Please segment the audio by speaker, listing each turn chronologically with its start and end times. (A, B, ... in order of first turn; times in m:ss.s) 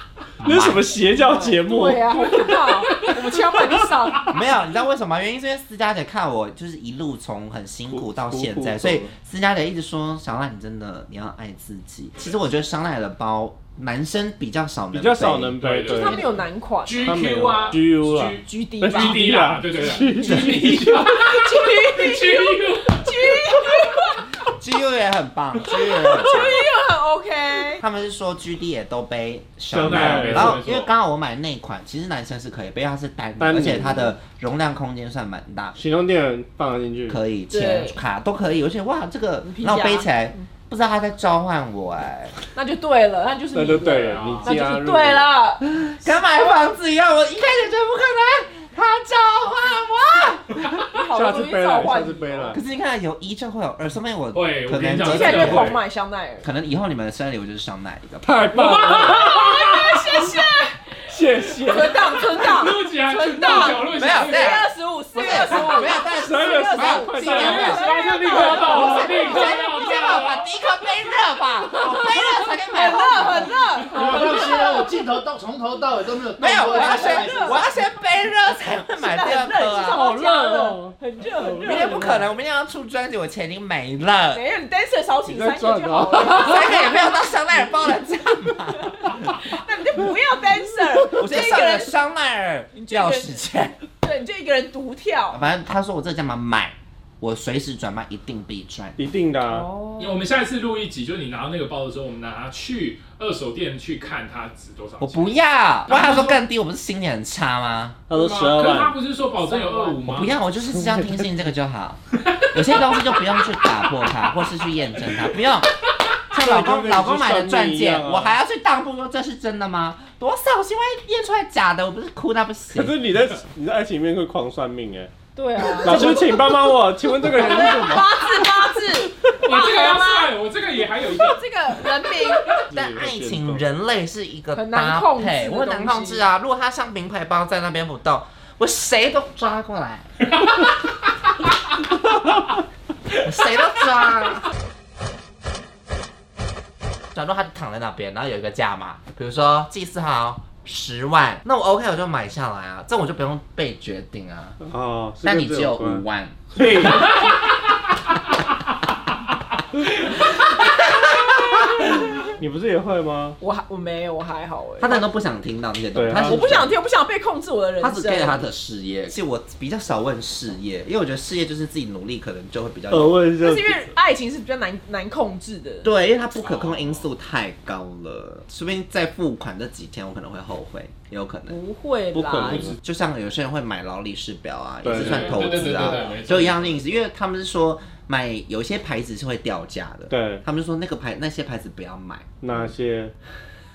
0:00.4-0:00.9 A
0:00.4-0:02.9 B
0:01.0-0:04.4 C
0:04.3-0:15.6 A
0:07.9-0:09.1 B
0:14.9-0:16.3 B
0:15.6-0:16.3 D
0:15.9-0:17.1 C
0:16.8-0:23.6 D
0:17.0-0:20.9 B
0:18.4-0:19.2 C
0:20.0-0:24.3 C
0:24.4-0:26.6 A
0:25.7-0:27.8 C
0:27.7-0:35.8 A
0:29.7-0:30.6 B
0:29.8-0:30.9 D
0:33.4-0:34.1 B
0:35.8-0:37.2 B
0:37.1-0:42.4 A
0:37.5-0:38.0 C
0:39.4-0:40.1 C
0:42.5-0:45.6 C
0:43.5-0:45.3 B
0:44.0-0:44.6 D
0:45.6-0:50.8 A
0:50.9-0:52.6 C
0:51.1-0:52.6 B
0:52.5-0:55.7 A
0:54.3-0:55.8 D
0:55.0-0:56.5 C
0:56.4-0:58.3 A
0:58.2-0:59.5 B
0:58.5-1:09.7 C
0:58.6-1:00.3 D
1:01.0-1:02.4 B
1:02.3-1:04.6 D
1:03.9-1:07.8 A
1:06.0-1:08.5 B
1:07.2-1:10.5 D
1:08.5-1:13.5 A
1:11.8-1:15.1 C
1:13.9-1:17.5 E
1:16.3-1:20.0 A
1:16.6-1:17.6 C
1:19.0-1:22.2 C
1:19.9-1:22.3 B
1:21.6-1:24.4 A
1:24.3-1:27.8 C
1:25.2-1:26.7 B
1:26.1-1:29.4 A
1:28.7-1:32.0 C
1:31.1-1:33.8 A
1:32.7-1:35.4 C
1:35.3-1:39.0 A
1:39.0-1:39.6 B
1:39.4-1:40.2 C
1:40.0-1:45.4 D
1:45.0-1:48.0 A
1:45.9-1:46.4 D
1:48.1-1:49.0 B
1:48.1-1:50.4 D
1:49.4-1:50.0 C
1:50.1-1:55.7 A
1:50.7-1:51.2 B
1:52.2-1:53.5 D
1:56.3-2:03.0 A
1:56.4-1:58.4 B
2:02.7-2:08.4 B
2:05.4-2:10.3 C
2:09.3-2:11.4 D
2:11.1-2:12.6 C
2:12.7-2:13.6 B
2:12.7-2:20.1 A
2:14.5-2:16.2 C
2:20.3-2:20.6 D
2:23.1-2:24.5 A
2:27.1-2:34.6 A
2:34.6-2:36.0 B
2:35.2-2:36.9 A
2:36.5-2:37.1 B
2:40.6-2:41.8 A
2:41.8-2:42.2 C
2:42.4-2:43.4 B
2:43.4-2:45.1 C
2:44.8-2:46.7 A
2:45.9-2:46.4 B
2:46.2-2:48.4 C
2:47.8-2:53.2 A
2:52.9-2:53.9 B
2:53.4-2:55.9 C
2:55.8-3:01.6 A
2:56.4-2:57.1 D
3:01.5-3:02.7 C
3:02.1-3:02.8 B
3:02.8-3:12.3 A
3:04.8-3:05.6 B
3:04.9-3:07.0 D
3:05.4-3:06.2 C
3:10.1-3:10.4 B
3:12.4-3:13.1 B